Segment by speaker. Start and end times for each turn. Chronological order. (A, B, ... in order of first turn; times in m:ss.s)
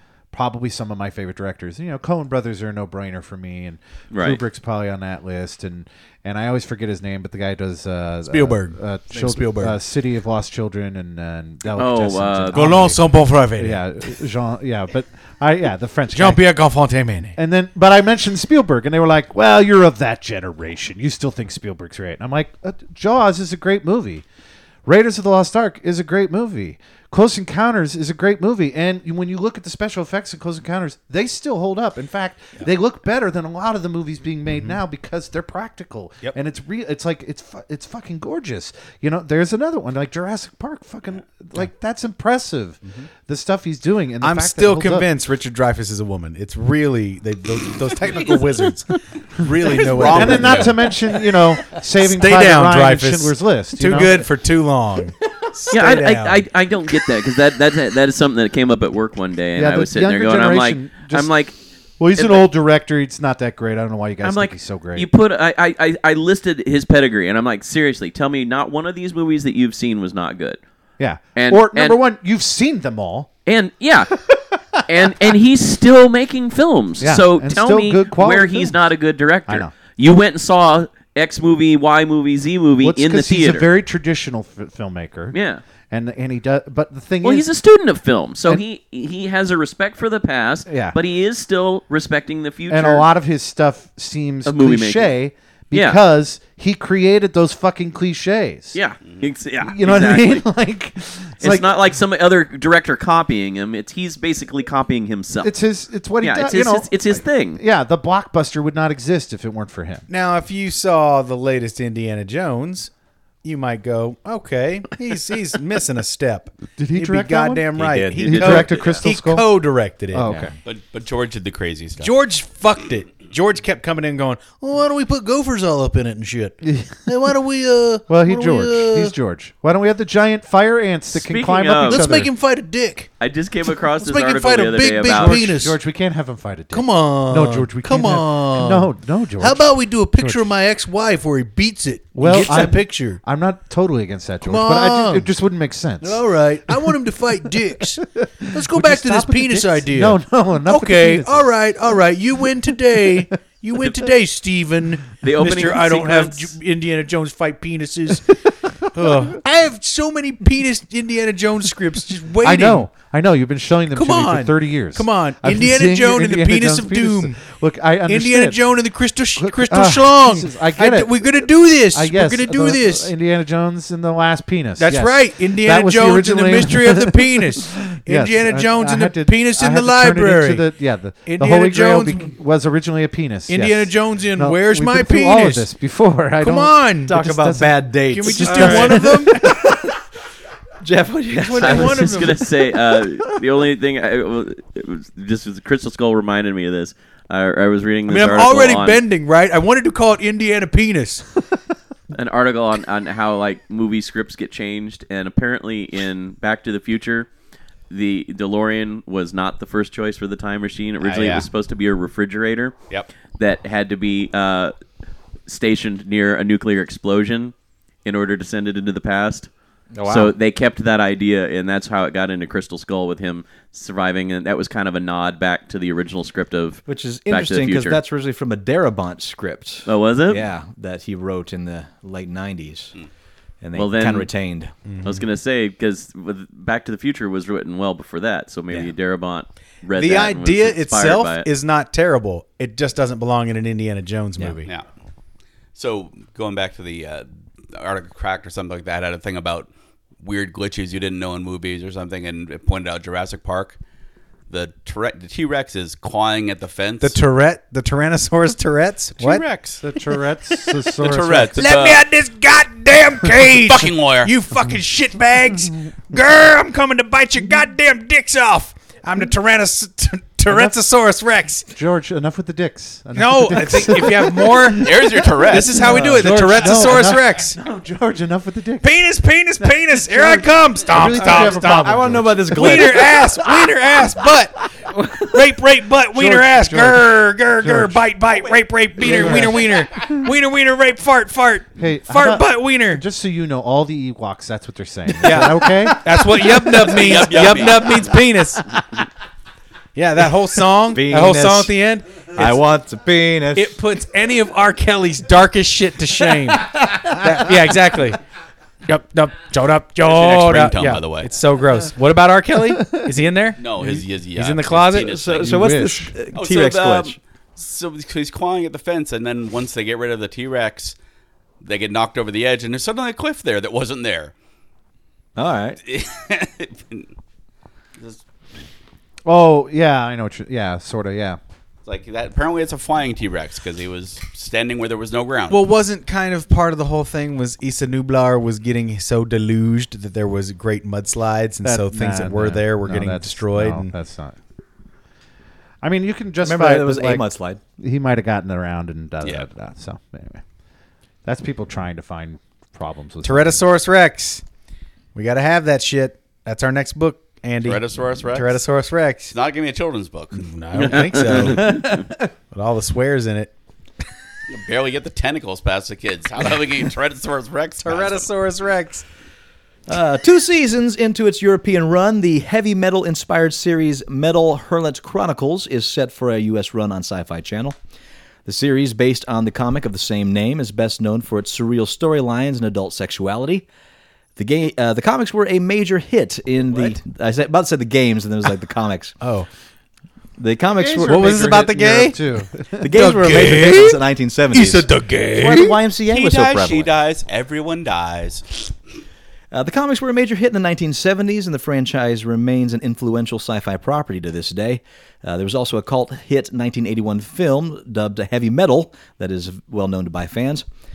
0:00.3-0:13.0 A
0:04.1-0:04.4 B
0:08.3-0:09.8 C
0:11.8-0:12.8 B
0:12.5-0:14.1 C
0:13.6-0:16.4 A
0:16.1-0:17.4 C
0:17.4-0:24.2 A
0:24.8-0:45.1 A
0:34.5-0:34.8 C
0:44.2-0:50.8 C
0:49.8-0:50.9 D
0:50.0-0:54.3 A
0:52.0-0:56.5 C
0:55.7-1:01.5 B
0:59.6-1:01.3 A
1:02.0-1:05.1 A
1:02.2-1:02.5 B
1:04.2-1:10.6 B
1:11.0-1:13.3 A
1:11.4-1:12.0 B
1:13.5-1:14.2 B
1:14.3-1:15.3 A
1:14.9-1:23.7 B
1:17.0-1:18.8 A
1:19.5-1:19.7 A
1:22.8-1:25.4 A
1:25.3-1:25.6 B
1:25.9-1:27.5 A
1:27.2-1:33.1 B
1:30.7-1:31.0 A
1:32.7-1:38.8 A
1:34.5-1:35.2 B
1:35.7-1:36.0 B
1:38.7-1:40.5 B
1:39.6-1:41.7 A
1:41.4-1:45.6 B
1:45.4-1:50.1 A
1:46.2-1:47.6 B
1:50.1-1:52.9 C
1:53.4-2:00.3 C
1:56.8-1:59.5 A
1:57.8-1:58.6 E
1:58.2-1:59.0 B
2:00.1-2:00.5 A
2:00.3-2:00.5 E
2:00.6-2:02.1 D
2:02.0-2:09.2 C
2:06.6-2:07.0 A
2:08.1-2:12.3 A
2:11.1-2:12.0 B
2:11.8-2:13.1 C
2:13.2-2:15.5 B
2:13.8-2:15.8 C
2:15.1-2:20.5 A
2:16.7-2:23.2 C
2:22.1-2:27.0 A
2:24.4-2:25.3 C
2:26.0-2:42.9 C
2:28.4-2:31.7 A
2:32.7-2:33.3 A
2:35.2-2:36.6 B
2:39.0-2:39.3 A
2:42.4-2:48.6 A
2:43.9-2:47.4 C
2:48.1-2:53.1 C
2:49.4-3:09.6 A
2:54.8-3:00.7 C
3:01.3-3:02.3 C
3:03.5-3:05.7 C
3:06.4-3:07.2 C
3:07.1-3:10.0 E
3:08.1-3:09.6 C
3:10.8-3:12.3 E
3:11.3-3:12.4 C
3:11.6-3:19.0 B
3:18.1-3:21.3 C
3:22.1-3:27.3 B
3:27.9-3:32.8 B
3:31.0-3:31.5 D
3:33.4-3:34.7 B
3:35.5-3:37.5 B
3:38.0-3:39.5 B
3:39.9-3:40.4 E
3:40.0-3:48.0 B
3:46.9-3:53.0 E
3:49.9-3:50.5 B
3:53.6-3:54.7 E
3:53.8-3:54.3 B
3:54.9-3:55.2 C
3:55.0-4:01.5 B
3:59.9-4:04.7 C
4:05.8-4:09.7 D
4:10.2-4:13.8 D
4:14.5-4:17.2 D
4:17.0-4:19.6 C
4:19.2-4:21.7 A
4:21.0-4:22.0 D
4:21.6-4:31.7 C
4:23.5-4:24.3 D
4:30.5-4:30.8 A
4:31.7-4:38.9 A
4:33.2-4:37.6 C
4:34.7-4:36.4 D
4:38.8-4:53.0 C
4:39.6-4:43.1 A
4:41.0-4:43.3 E
4:46.1-4:48.0 A
4:49.0-4:49.6 A
4:49.1-4:49.5 E
4:51.8-4:56.5 A
4:55.2-4:58.8 C
4:56.8-4:58.2 D
5:00.0-5:02.6 C
5:00.9-5:01.7 E
5:02.4-5:03.8 E
5:03.6-5:08.2 C
5:06.6-5:07.5 E
5:08.9-5:15.1 C
5:10.0-5:11.3 D
5:13.6-5:15.7 D
5:15.0-5:17.2 E
5:15.4-5:16.2 A
5:16.3-5:21.0 D
5:21.6-5:24.3 D
5:25.4-5:25.8 E
5:25.8-5:27.1 D
5:29.2-5:31.4 A
5:31.8-5:35.6 D
5:35.5-5:43.9 C
5:41.6-5:44.4 A
5:45.8-5:47.3 A
5:46.4-5:47.6 E
5:47.8-5:50.4 A
5:51.2-5:53.6 A
5:53.2-5:54.4 C
5:55.2-5:59.4 C
5:57.6-5:58.6 D
5:59.3-6:00.5 D
6:00.3-6:03.5 C
6:00.8-6:02.0 B
6:01.6-6:02.1 E
6:04.5-6:08.3 D
6:07.8-6:09.0 C
6:09.9-6:17.8 E
6:18.5-6:23.7 E
6:24.4-6:29.2 E
6:29.2-6:29.5 C
6:30.4-6:31.7 E
6:30.8-6:33.1 A
6:31.0-6:32.2 C
6:32.8-6:36.9 E
6:32.9-6:34.0 C
6:34.5-6:35.8 C
6:36.0-6:38.4 D
6:39.5-6:50.6 E